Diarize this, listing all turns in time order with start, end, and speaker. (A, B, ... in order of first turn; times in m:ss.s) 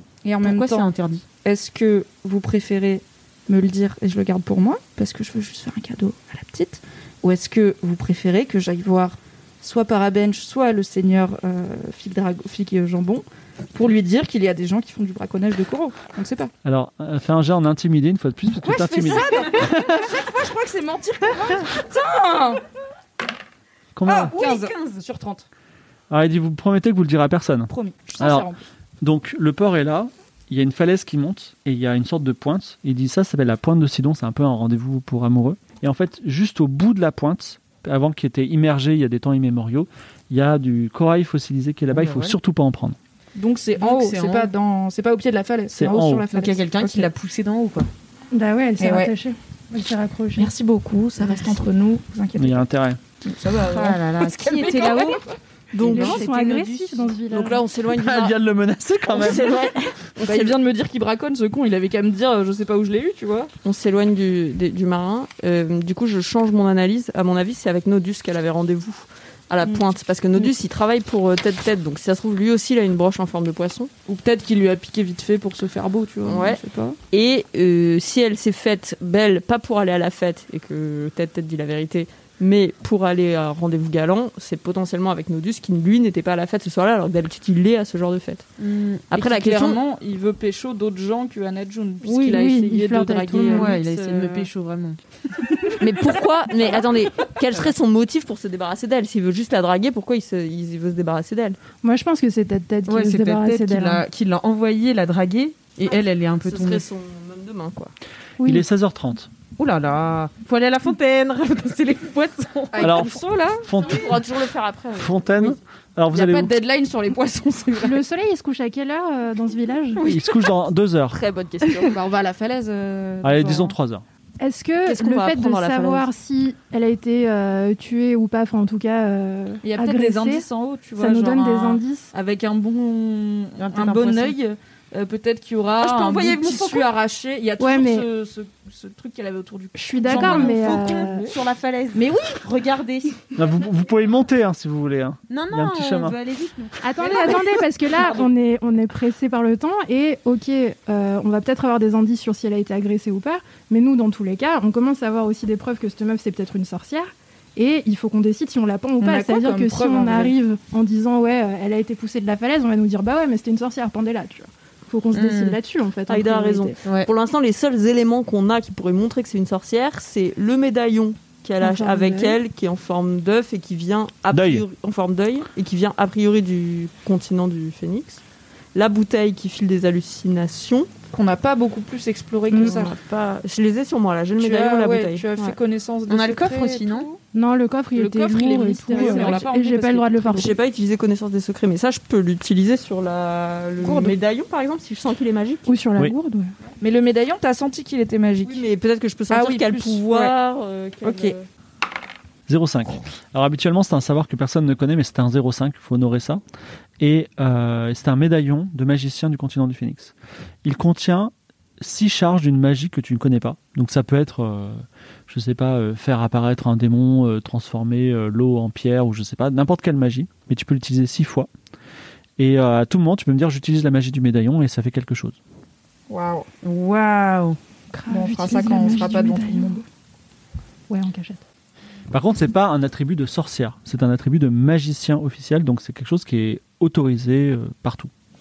0:00.2-0:00.9 A
0:00.4-0:01.2 B
0:01.4-0:16.5 A
0:16.6-0:20.1 C
0:18.5-0:22.6 A
0:19.1-0:19.6 B
0:24.0-0:24.4 C
0:24.1-0:25.5 A
0:24.2-0:25.0 B
0:26.1-0:28.5 C
0:27.7-0:28.6 A
0:29.0-0:43.0 C
0:41.9-0:42.4 B
0:43.4-0:47.1 A
0:43.8-0:44.5 B
0:45.7-0:46.3 C
0:46.3-0:47.9 B
0:48.3-0:50.5 D
0:48.8-0:49.1 A
0:50.4-0:52.6 A
0:52.4-0:53.0 C
0:53.2-0:56.2 A
0:53.6-0:55.2 B
0:55.7-0:58.4 E
0:55.9-0:56.2 B
0:55.9-0:57.6 D
0:57.9-0:59.5 C
0:59.1-1:00.6 E
1:00.2-1:03.5 A
1:03.6-1:13.9 E
1:14.1-1:17.0 A
1:16.2-1:28.5 E
1:28.6-1:29.0 B
1:29.1-1:29.8 E
1:29.1-1:34.5 A
1:32.0-1:33.8 D
1:33.5-1:35.0 B
1:35.8-1:41.6 E
1:41.8-1:44.0 D
1:42.9-1:46.8 B
1:45.9-1:47.9 E
1:48.4-1:48.7 D
1:48.4-1:49.3 C
1:49.6-1:53.0 B
1:52.7-1:53.7 A
1:52.8-1:54.2 C
1:53.8-1:55.3 E
1:55.0-1:56.5 C
1:56.1-1:58.0 A
1:57.8-2:00.0 D
2:00.0-2:00.5 E
2:00.1-2:01.2 C
2:01.1-2:02.0 E
2:01.9-2:03.8 A
2:03.2-2:04.0 C
2:04.4-2:10.5 D
2:04.9-2:06.1 E
2:09.6-2:21.2 A
2:11.0-2:12.1 D
2:13.6-2:14.4 B
2:15.8-2:16.9 B
2:17.6-2:18.1 D
2:19.8-2:21.3 D
2:20.0-2:23.2 B
2:22.0-2:22.4 A
2:23.4-2:26.2 C
2:25.3-2:28.2 B
2:26.8-2:46.8 D
2:39.0-2:40.4 A
2:45.1-2:45.6 B
2:46.1-2:58.2 E
2:46.8-2:47.1 B
2:51.6-2:52.4 D
2:54.3-2:54.6 C
2:58.8-3:00.9 E
3:01.1-3:02.9 A
3:02.5-3:02.8 D
3:02.5-3:05.3 E
3:04.4-3:07.2 A
3:06.1-3:07.1 B
3:07.3-3:10.6 D
3:08.0-3:10.5 A
3:08.9-3:09.4 E
3:10.3-3:15.7 E
3:13.8-3:14.2 A
3:15.7-3:16.5 D
3:16.8-3:18.6 A
3:18.4-3:21.5 E
3:19.3-3:20.3 A
3:21.0-3:21.4 A
3:22.5-3:26.4 C
3:27.0-3:41.5 C
3:42.4-3:45.4 C
3:46.1-3:46.5 A
3:46.6-3:47.6 B
3:47.9-3:49.8 D
3:48.1-3:49.8 A
3:50.9-3:51.4 D
3:52.1-3:58.1 C